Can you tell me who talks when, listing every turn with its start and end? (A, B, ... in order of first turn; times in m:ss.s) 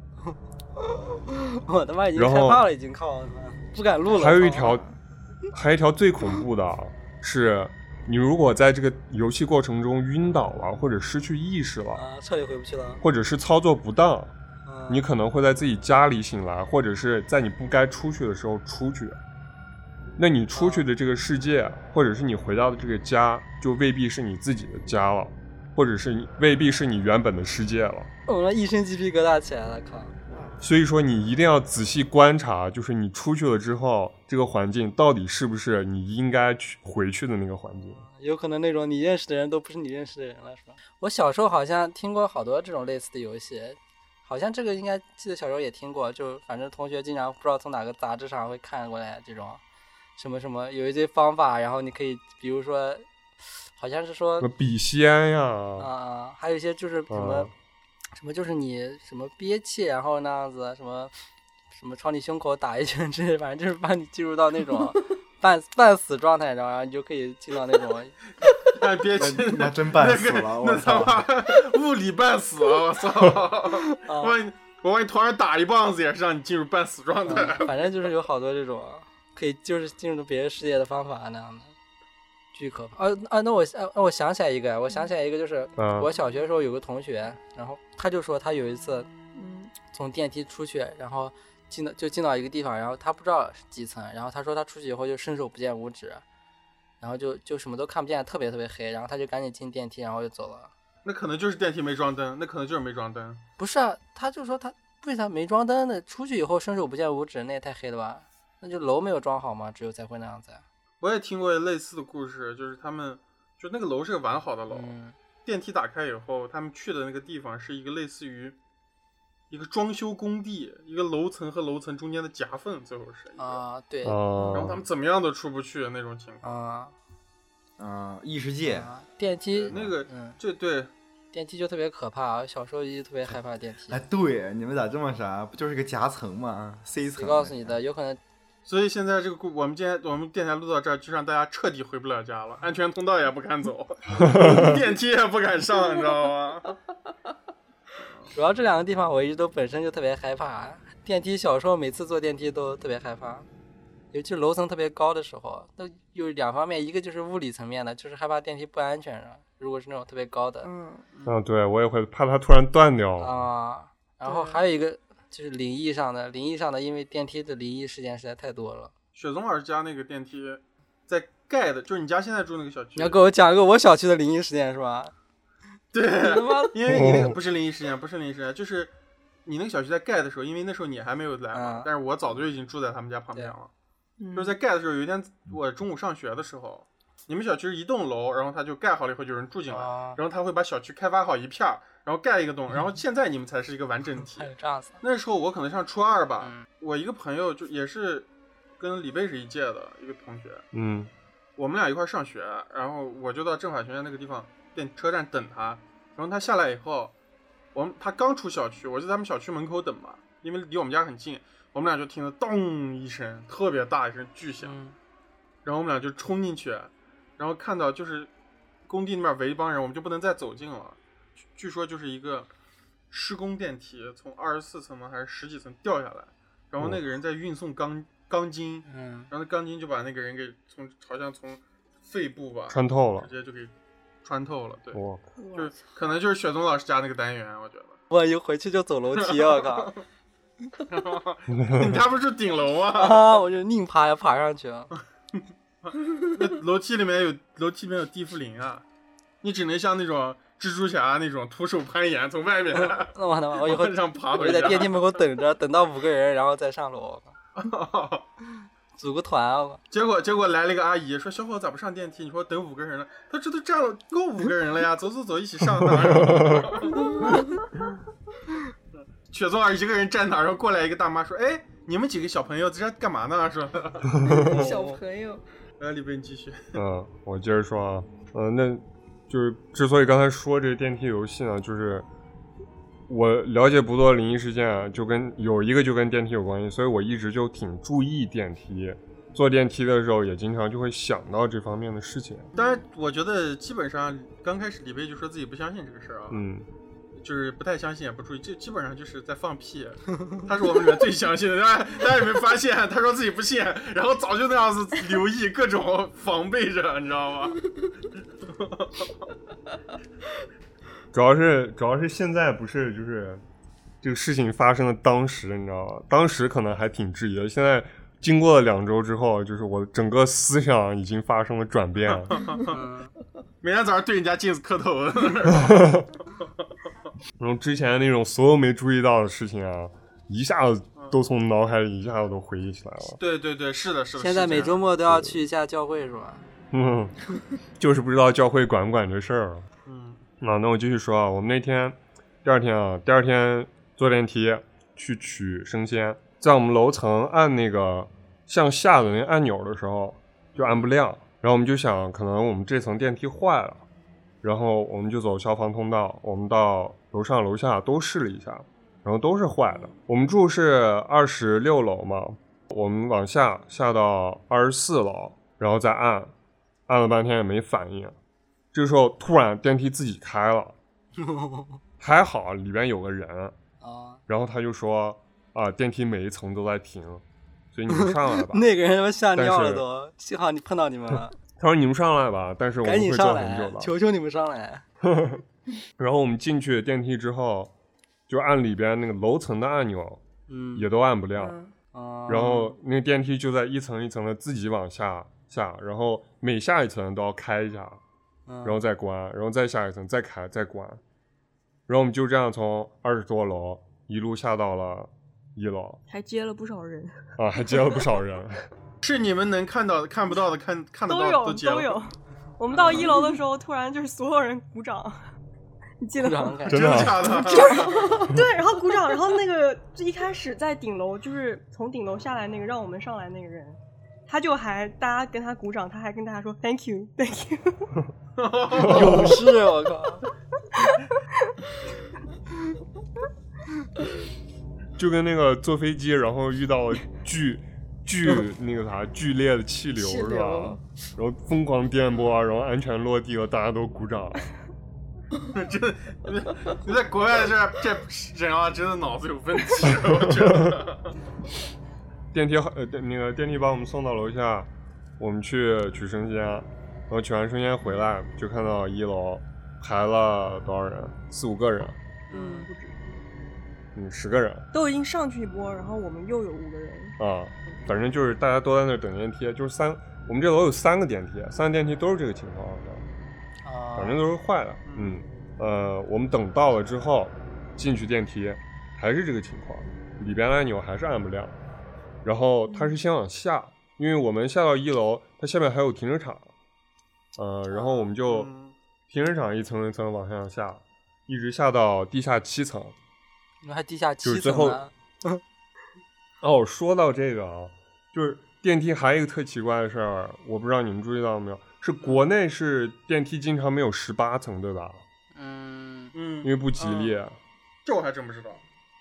0:00.3-0:04.8 A
0:02.2-0:02.6 B
0:04.1-0:04.8 B
0:05.5-0:12.0 B
0:12.0-0:13.0 A
0:13.0-0:14.3 B
0:14.7-0:15.0 A
0:14.9-0:19.2 B
0:20.2-0:28.1 B
0:20.5-0:20.9 A
0:28.3-0:30.2 A
0:30.6-0:38.0 B
0:38.0-0:49.6 A
0:50.2-0:53.1 A
0:53.8-0:54.5 A
0:54.4-0:55.9 B
0:55.8-0:57.5 A
0:57.1-0:57.5 B
0:58.2-1:01.1 A
1:01.7-1:08.2 A
1:08.7-1:17.7 C
1:09.2-1:11.3 D
1:14.0-1:14.3 A
1:17.3-1:21.7 A
1:22.5-1:29.1 A
1:25.8-1:26.1 B
1:29.4-1:29.7 E
1:29.9-1:36.2 A
1:37.0-1:40.7 A
1:41.0-1:43.4 C
1:43.6-1:50.6 A
1:51.0-1:54.9 C
1:54.7-1:55.2 A
1:55.4-1:58.6 C
1:59.5-2:03.6 C
2:03.4-2:04.2 A
2:04.0-2:04.8 B
2:04.4-2:04.8 E
2:04.5-2:06.6 C
2:06.4-2:06.9 A
2:07.8-2:08.9 D
2:08.6-2:10.4 A
2:09.5-2:10.9 C
2:11.3-2:14.0 A
2:13.9-2:17.8 D
2:17.2-2:18.2 A
2:18.7-2:26.8 C
2:24.2-2:24.8 B
2:28.3-2:33.5 A
2:34.1-2:40.7 A
2:40.6-2:41.0 E
2:41.3-2:43.3 B
2:43.2-2:48.9 A
2:44.2-2:44.6 E
2:49.2-2:53.2 C
2:53.0-2:55.1 A
2:55.9-2:58.9 C
2:56.2-2:57.2 A
2:56.9-2:57.4 B
2:59.4-3:03.7 C
3:01.5-3:01.9 A
3:04.2-3:04.5 E
3:04.4-3:14.5 C
3:09.7-3:10.2 A
3:14.2-3:15.0 A
3:15.0-3:18.3 C
3:16.4-3:16.7 A
3:18.8-3:20.6 C
3:20.7-3:21.1 B
3:21.6-3:27.1 C
3:27.8-3:34.8 C
3:34.6-3:35.0 A
3:35.6-3:38.3 C
3:38.9-3:41.0 C
3:41.6-3:42.5 C
3:43.1-3:53.7 C
3:48.9-3:49.3 A
3:52.7-3:53.3 B
3:54.2-3:55.0 C
3:54.9-3:55.3 B
3:55.4-3:55.9 E
3:55.6-3:58.0 C
3:58.1-3:59.9 A
3:59.2-4:00.0 C
4:00.9-4:03.3 C
4:01.5-4:02.0 B
4:03.0-4:04.9 A
4:05.8-4:08.8 C
4:09.4-4:15.1 C
4:12.7-4:17.3 A
4:17.6-4:18.3 C
4:19.0-4:19.8 A
4:19.9-4:27.4 C
4:26.2-4:26.6 B
4:26.9-4:27.5 E
4:28.9-4:34.8 C
4:34.2-4:35.4 E
4:34.5-4:35.0 A
4:35.8-4:36.8 C
4:36.7-4:42.1 B
4:43.1-4:52.5 B
4:52.6-4:56.4 C
4:56.3-4:56.7 B
4:57.2-5:07.6 C
5:08.5-5:09.1 C
5:11.1-5:13.4 B
5:14.0-5:22.3 B
5:22.1-5:22.8 C
5:22.7-5:23.1 A
5:23.6-5:25.8 C
5:25.5-5:26.1 B
5:27.4-5:33.2 B
5:33.2-5:34.8 C
5:34.2-5:36.4 A
5:35.1-5:35.4 B
5:36.7-5:37.2 B
5:37.8-5:39.7 B
5:39.9-5:40.2 C
5:40.4-5:53.8 B
5:54.4-6:06.3 B
6:06.9-6:08.2 B
6:08.7-6:10.8 B
6:11.2-6:11.8 A
6:12.0-6:13.6 B
6:13.8-6:14.2 A
6:14.3-6:18.7 B
6:17.9-6:21.4 A
6:19.3-6:19.8 B
6:21.6-6:23.9 B
6:22.8-6:24.8 A
6:25.0-6:25.4 B
6:26.0-6:27.7 B
6:28.3-6:30.2 B
6:30.5-6:30.9 A
6:30.8-6:31.6 B
6:31.4-6:31.7 E
6:31.9-6:32.8 A
6:32.3-6:38.0 B
6:38.5-6:38.8 A
6:38.6-6:41.0 B
6:41.9-6:46.0 B
6:46.1-6:47.1 F
6:47.4-6:48.6 B
6:49.0-6:52.0 C
6:51.1-6:55.2 F
6:56.0-6:56.7 F
6:56.2-6:57.1 A
6:56.7-6:57.3 B
6:56.7-6:57.9 C
6:57.2-7:07.9 F
6:57.4-6:58.4 E
7:08.4-7:09.2 C
7:08.7-7:10.3 A
7:08.8-7:09.4 B
7:15.0-7:24.5 B
7:20.0-7:20.8 E
7:25.5-7:31.1 C
7:30.4-7:30.8 B
7:32.3-7:42.0 B
7:42.3-7:42.7 A
7:42.3-7:43.2 F
7:44.0-7:44.7 B
7:44.7-7:47.2 F
7:47.2-7:53.0 B
7:53.6-7:54.2 A
7:54.0-8:01.6 B
7:54.9-7:55.2 C
8:02.2-8:06.5 B
8:07.4-8:08.5 B
8:08.2-8:08.7 C
8:09.1-8:13.0 B
8:13.6-8:15.4 A
8:14.2-8:14.8 B
8:16.4-8:25.0 B
8:25.3-8:26.2 A
8:26.2-8:26.5 C
8:26.4-8:27.4 B
8:27.8-8:28.6 C